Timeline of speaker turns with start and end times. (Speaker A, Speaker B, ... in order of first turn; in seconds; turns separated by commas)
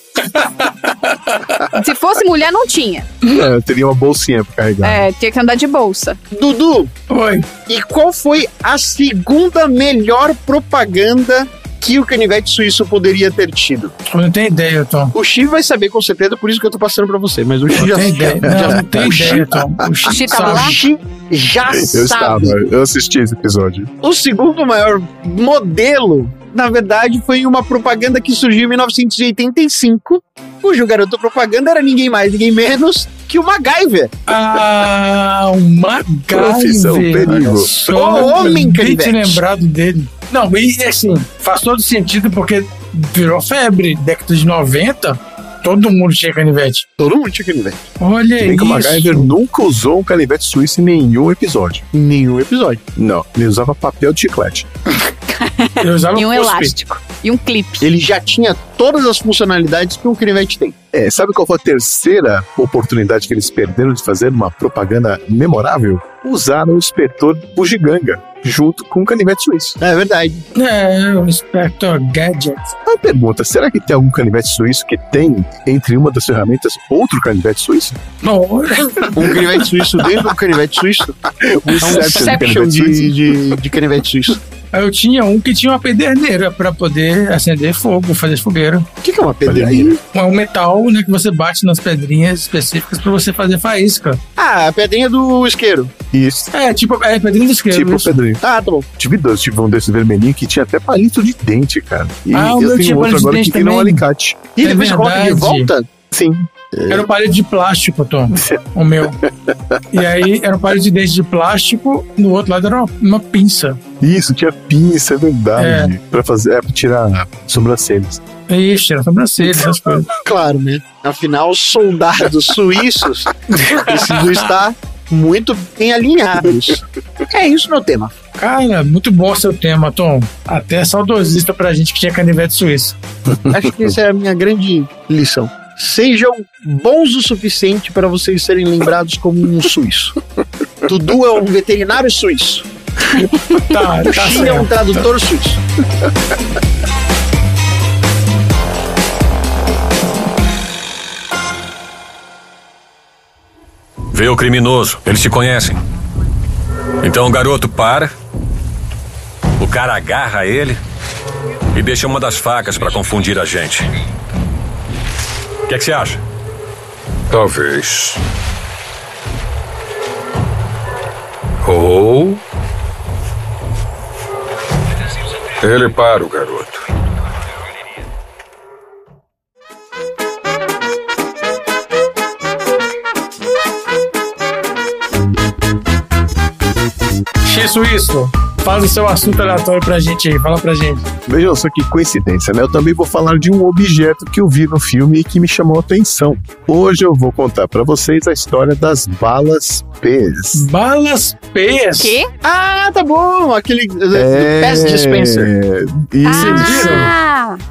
Speaker A: 0.2-1.7, Speaker B: 1.7-3.1, Speaker C: 3.2-5.0, Speaker B: 4.8-6.2, Speaker D: 6.3-6.9, Speaker A: 7.1-7.5, Speaker D: 7.7-13.9, Speaker A: 14.1-15.1, Speaker D: 15.1-19.4, Speaker A: 17.7-20.8, Speaker C: 18.4-19.9, Speaker B: 20.1-20.8, Speaker D: 20.3-22.6, Speaker C: 21.7-23.9, Speaker D: 24.0-34.1, Speaker A: 34.3-46.9, Speaker C: 36.3-38.3, Speaker D: 37.3-39.4, Speaker D: 47.0-47.8, Speaker A: 48.0-49.3, Speaker C: 48.4-51.9, Speaker D: 51.9-52.8, Speaker C: 53.0-54.7, Speaker B: 55.3-57.9, Speaker A: 55.8-56.7, Speaker D: 57.8-60.8, Speaker C: 60.9-69.8, Speaker D: 69.8-70.4, Speaker A: 70.5-72.7, Speaker C: 72.8-78.0, Speaker A: 78.2-79.6, Speaker D: 79.2-81.2, Speaker C: 80.0-80.3, Speaker C: 81.3-83.5, Speaker A: 81.8-82.1, Speaker D: 81.8-84.4, Speaker A: 84.7-88.8, Speaker D: 89.0-90.0, Speaker C: 89.4-90.0, Speaker A: 90.1-94.2, Speaker D: 94.4-95.9, Speaker C: 96.1-96.5, Speaker A: 96.5-98.2, Speaker C: 97.7-98.4, Speaker D: 98.4-98.9, Speaker C: 99.0-104.5, Speaker A: 102.3-104.0, Speaker D: 104.5-105.9, Speaker A: 104.6-105.7, Speaker C: 106.1-107.1, Speaker A: 106.9-109.2, Speaker C: 108.3-108.7, Speaker C: 109.2-110.0, Speaker A: 109.9-113.8, Speaker C: 114.0-118.2, Speaker A: 115.6-115.9, Speaker A: 118.5-120.1, Speaker D: 120.2-128.1, Speaker A: 123.8-124.3, Speaker A: 128.4-132.9, Speaker C: 133.3-133.9, Speaker D: 133.5-140.2, Speaker D: 140.8-142.7, Speaker A: 143.2-145.1, Speaker D: 144.1-145.6, Speaker E: 154.1-155.8, Speaker E: 157.0-158.1, Speaker E: 159.6-160.8, Speaker E: 161.7-163.8, Speaker E: 165.7-166.2, Speaker E: 167.3-168.2, Speaker E: 171.6-172.4, Speaker E: 175.6-176.8, Speaker A: 187.4-191.0, Speaker C: 191.2-200.7, Speaker A: 200.5-202.2, Speaker B: 201.9-202.3, Speaker D: 202.4-205.5, Speaker C: 204.1-207.1, Speaker B: 206.2-207.6, Speaker A: 206.3-207.1